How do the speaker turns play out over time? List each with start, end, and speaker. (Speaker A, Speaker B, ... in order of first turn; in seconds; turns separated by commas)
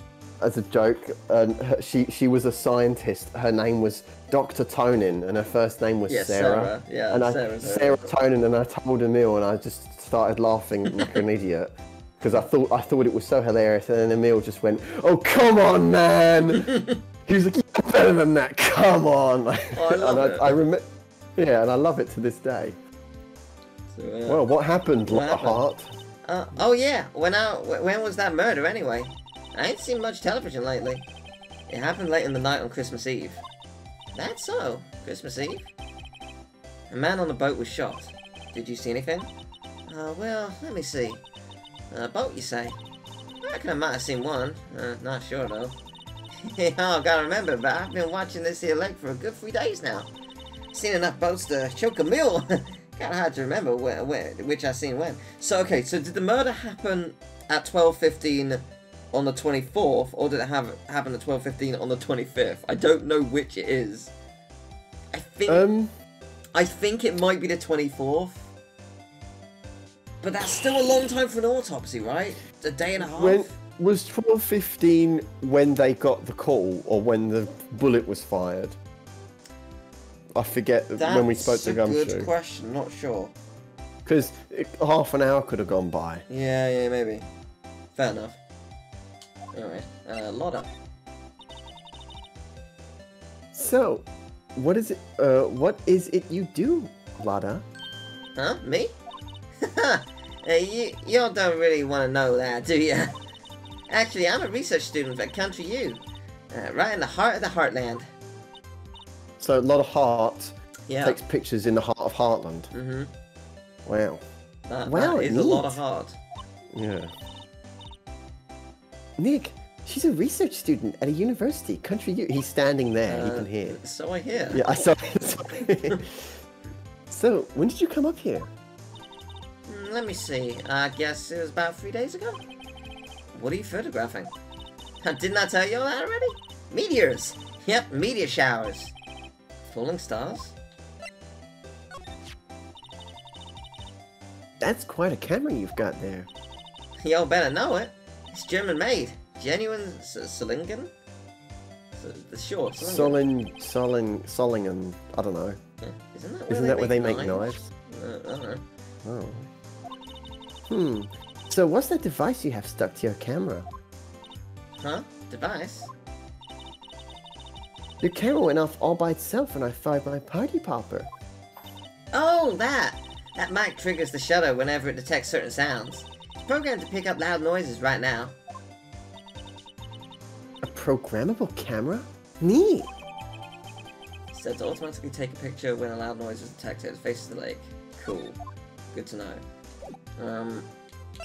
Speaker A: 0.4-16.7, Speaker B: 6.1-8.2, Speaker B: 16.6-17.0, Speaker A: 17.2-22.8, Speaker B: 19.7-20.6, Speaker B: 23.9-24.4, Speaker A: 24.3-26.0, Speaker B: 25.1-25.6, Speaker B: 26.2-31.1, Speaker B: 31.7-33.4, Speaker B: 34.1-35.7, Speaker B: 36.9-39.3, Speaker B: 39.9-41.2, Speaker B: 41.9-42.8, Speaker B: 43.4-45.8, Speaker B: 46.4-50.1, Speaker B: 50.7-64.1, Speaker B: 65.1-65.7, Speaker A: 65.5-65.9, Speaker B: 66.5-68.5, Speaker B: 70.2-73.6, Speaker A: 73.0-78.8, Speaker A: 80.3-82.3, Speaker B: 81.0-83.3, Speaker A: 84.1-86.2, Speaker B: 86.3-87.3, Speaker B: 88.0-88.4, Speaker B: 89.5-90.7, Speaker A: 93.5-97.7, Speaker B: 98.4-98.9, Speaker B: 99.6-103.1, Speaker B: 103.9-108.1, Speaker A: 109.4-112.7, Speaker B: 110.9-111.2, Speaker B: 112.7-113.1, Speaker A: 113.9-114.2, Speaker B: 114.7-116.2, Speaker A: 114.9-115.8, Speaker A: 116.7-117.1, Speaker A: 119.2-123.8, Speaker B: 123.1-124.6, Speaker A: 124.5-126.4, Speaker A: 127.1-128.5, Speaker B: 129.7-132.4, Speaker B: 133.3-134.3, Speaker B: 135.0-138.9, Speaker B: 139.6-140.6, Speaker A: 144.6-146.3, Speaker B: 147.0-150.9, Speaker B: 151.9-153.2, Speaker A: 152.8-155.6, Speaker B: 155.8-158.6, Speaker A: 156.5-157.7, Speaker A: 159.0-159.5, Speaker A: 160.7-163.7, Speaker B: 164.8-165.9, Speaker A: 168.0-171.1, Speaker B: 172.1-178.3, Speaker A: 180.6-182.9, Speaker B: 184.3-188.4, Speaker B: 188.9-189.4, Speaker B: 190.2-190.7